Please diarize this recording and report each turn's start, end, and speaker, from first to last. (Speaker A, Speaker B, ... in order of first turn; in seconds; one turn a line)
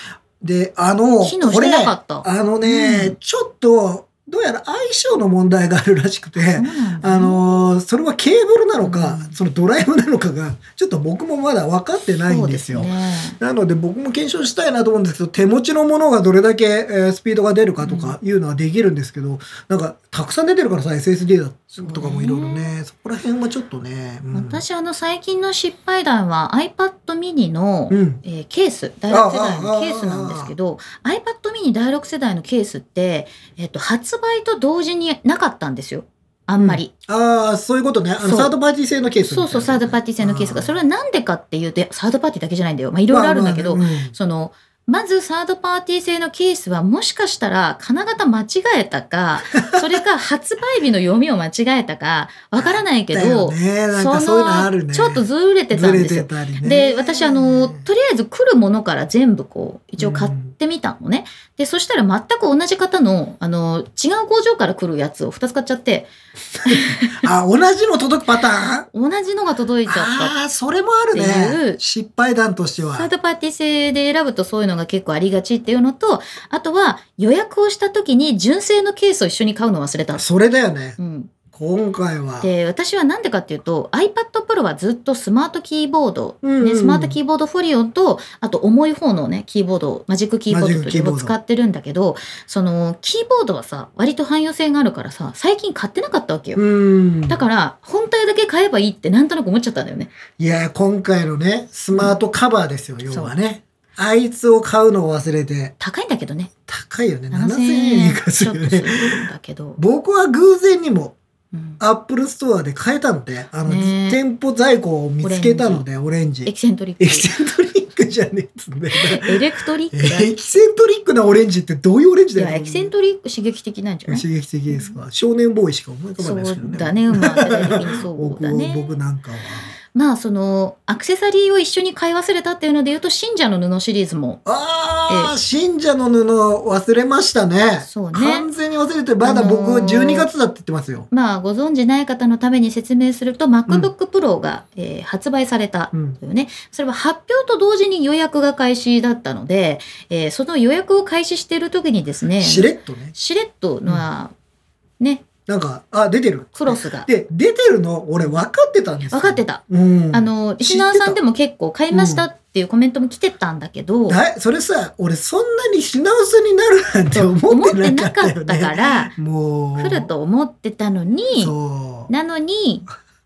Speaker A: 0.4-24.6
Speaker B: 1.2-3.1
Speaker B: 6.4-7.4
Speaker B: 8.8-9.4
Speaker B: 12.2-13.4
Speaker B: 17.8-18.1
Speaker B: 21.8-22.7
Speaker B: 24.3-36.9
Speaker A: 27.9-28.2
Speaker A: 29.1-30.5
Speaker A: 36.6-40.8
Speaker B: 38.2-38.5
Speaker B: 39.2-66.1
Speaker A: 43.1-44.1
Speaker A: 52.5-57.9
Speaker A: 60.0-60.5
Speaker A: 66.6-68.8
Speaker B: 66.6-67.2
Speaker B: 68.8-70.3
Speaker A: 69.8-73.1
Speaker B: 71.1-71.8
Speaker B: 72.9-80.2
Speaker A: 80.1-81.0
Speaker B: 81.0-81.3
Speaker A: 81.5-82.5
Speaker B: 82.4-96.6
Speaker A: 86.4-87.2
Speaker A: 90.5-91.3
Speaker A: 96.5-97.5
Speaker B: 97.3-100.1
Speaker A: 100.4-105.7
Speaker B: 101.9-102.2
Speaker B: 105.8-106.5
Speaker A: 106.7-109.2
Speaker B: 107.3-109.8
Speaker A: 109.8-111.2
Speaker B: 111.5-111.8
Speaker A: 111.8-119.4
Speaker B: 113.7-114.2
Speaker B: 115.2-115.8
Speaker B: 116.5-117.3
Speaker B: 118.9-120.6
Speaker A: 119.9-122.9
Speaker B: 122.3-125.0
Speaker A: 124.1-129.7
Speaker B: 126.2-128.9
Speaker B: 129.9-134.4
Speaker A: 134.4-141.1
Speaker B: 135.1-135.3
Speaker B: 137.8-138.5
Speaker B: 139.2-140.3
Speaker B: 141.1-154.3
Speaker A: 145.9-146.2
Speaker A: 152.4-153.1
Speaker B: 155.0-155.2
Speaker A: 155.5-161.2
Speaker B: 156.5-157.1
Speaker B: 159.1-164.2
Speaker A: 161.9-162.3
Speaker A: 164.1-170.1
Speaker B: 167.1-169.1
Speaker B: 169.8-171.5
Speaker A: 171.4-172.1
Speaker B: 172.1-172.8